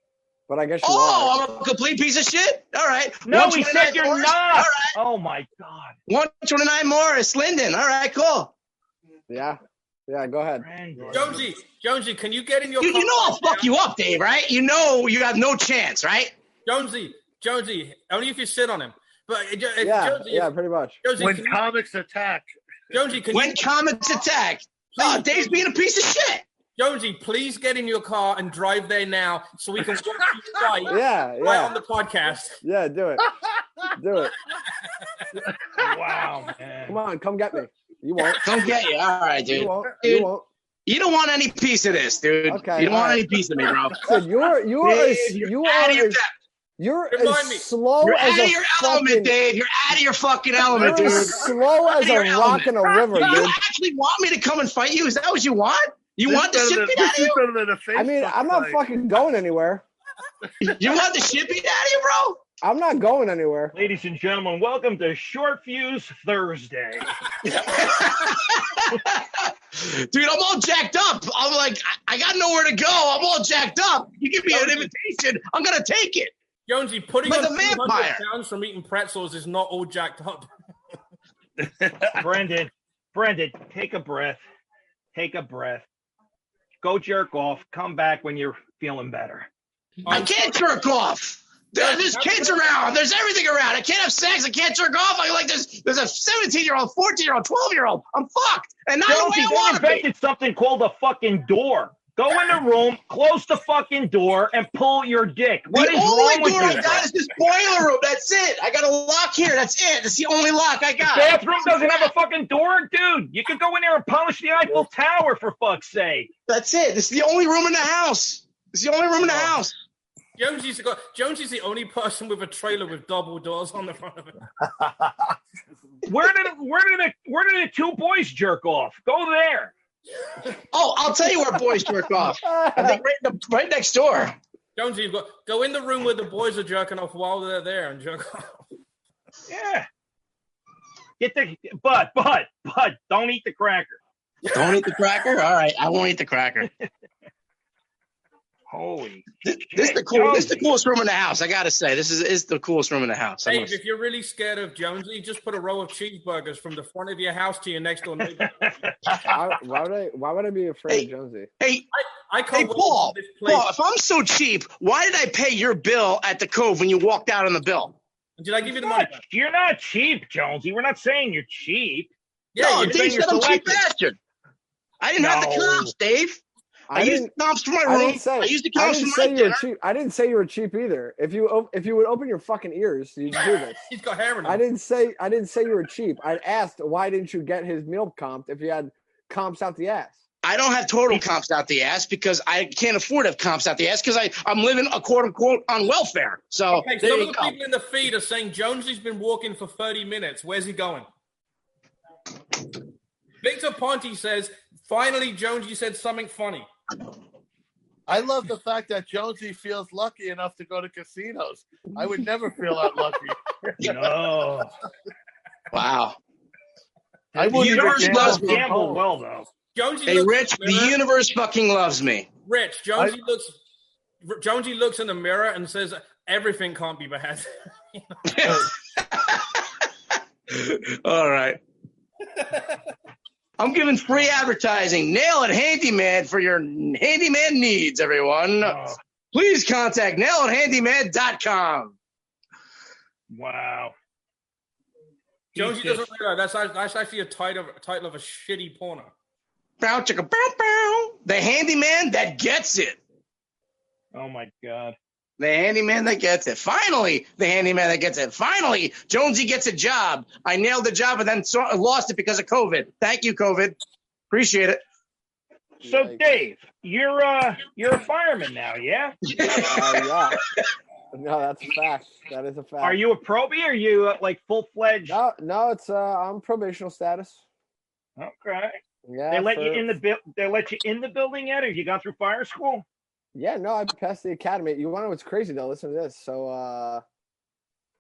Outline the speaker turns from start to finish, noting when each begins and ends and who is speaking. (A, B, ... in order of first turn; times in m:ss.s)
0:00.5-0:01.4 A
0:00.8-0:05.0 B
0:03.3-0:06.0 C
0:06.1-0:08.5 B
0:09.3-0:10.6 A
0:10.6-0:11.4 C
0:11.1-0:13.7 D
0:12.8-0:16.3 B
0:16.6-0:20.5 D
0:19.8-0:21.0 A
0:21.0-0:21.6 D
0:21.2-0:22.5 E
0:22.9-0:23.6 D
0:23.3-0:26.4 B
0:25.0-0:25.6 D
0:26.8-0:32.6 D
0:30.9-0:31.8 A
0:32.6-0:33.3 A
0:34.0-0:34.4 A
0:35.8-0:37.0 C
0:36.9-0:38.5 A
0:38.4-0:40.3 B
0:39.5-0:40.5 A
0:40.9-0:44.1 B
0:42.5-0:43.2 A
0:43.9-0:46.2 A
0:44.8-0:46.3 B
0:46.8-0:49.3 A
0:47.1-0:47.7 D
0:48.0-0:57.4 B
0:50.7-0:51.4 E
0:50.7-0:53.6 A
0:56.2-0:58.8 E
0:58.0-0:59.8 A
1:00.6-1:02.4 B
1:02.6-1:03.8 A
1:03.7-1:07.1 C
1:07.4-1:16.3 B
1:14.5-1:14.9 D
1:16.7-1:20.5 D
1:17.2-1:18.2 B
1:21.6-1:22.2 E
1:22.2-1:24.4 C
1:25.1-1:25.9 C
1:26.8-1:29.5 C
1:30.0-1:30.6 D
1:30.1-1:40.1 B
1:31.8-1:32.7 D
1:39.1-1:47.1 C
1:45.7-1:52.0 B
1:51.0-1:56.3 C
1:56.5-1:59.7 B
1:59.2-1:59.5 C
2:00.4-2:04.4 D
2:06.1-2:09.7 C
2:10.7-2:14.4 B
2:12.2-2:13.0 A
2:14.8-2:18.6 D
2:19.5-2:19.9 C
2:21.2-2:24.0 C
2:24.4-2:26.7 B
2:28.7-2:30.7 C
2:29.5-2:33.8 B
2:33.4-2:38.6 D
2:38.4-2:39.3 C
2:39.2-2:41.5 A
2:41.6-2:41.8 B
2:41.9-2:43.7 D
2:42.5-2:48.0 B
2:48.4-2:49.2 D
2:48.6-2:52.1 C
2:52.5-2:53.3 D
2:52.6-2:54.2 B
2:52.8-2:53.8 C
2:55.0-2:56.4 B
2:55.2-2:55.9 C
2:56.9-2:57.3 A
2:56.9-2:59.6 B
2:57.8-3:03.8 A
3:03.9-3:04.6 D
3:04.4-3:10.2 A
3:10.4-3:17.5 B
3:16.7-3:21.1 D
3:23.4-3:26.7 D
3:28.1-3:33.9 E
3:33.8-3:34.7 C
3:35.7-3:36.2 B
3:37.4-3:39.0 E
3:37.4-3:39.5 C
3:37.5-3:38.7 B
3:39.8-3:41.0 D
3:40.1-3:42.3 B
3:42.5-3:43.6 D
3:44.2-3:48.6 D
3:48.3-3:49.6 B
3:50.5-3:51.6 B
3:53.6-3:58.8 B
3:58.6-3:59.0 C
3:59.3-4:02.0 B
4:03.3-4:04.0 C
4:05.6-4:09.1 D
4:05.6-4:06.0 C
4:09.8-4:13.0 B
4:14.1-4:15.0 C
4:15.4-4:23.8 B
4:24.3-4:24.8 B
4:25.8-4:29.2 C
4:25.8-4:26.2 A
4:29.3-4:30.1 B
4:29.5-4:30.4 A
4:31.1-4:33.0 A
4:32.8-4:35.2 C
4:35.1-4:37.4 A
4:38.2-4:38.8 C
4:39.1-4:40.0 A
4:39.3-4:42.8 C
4:43.4-4:47.0 A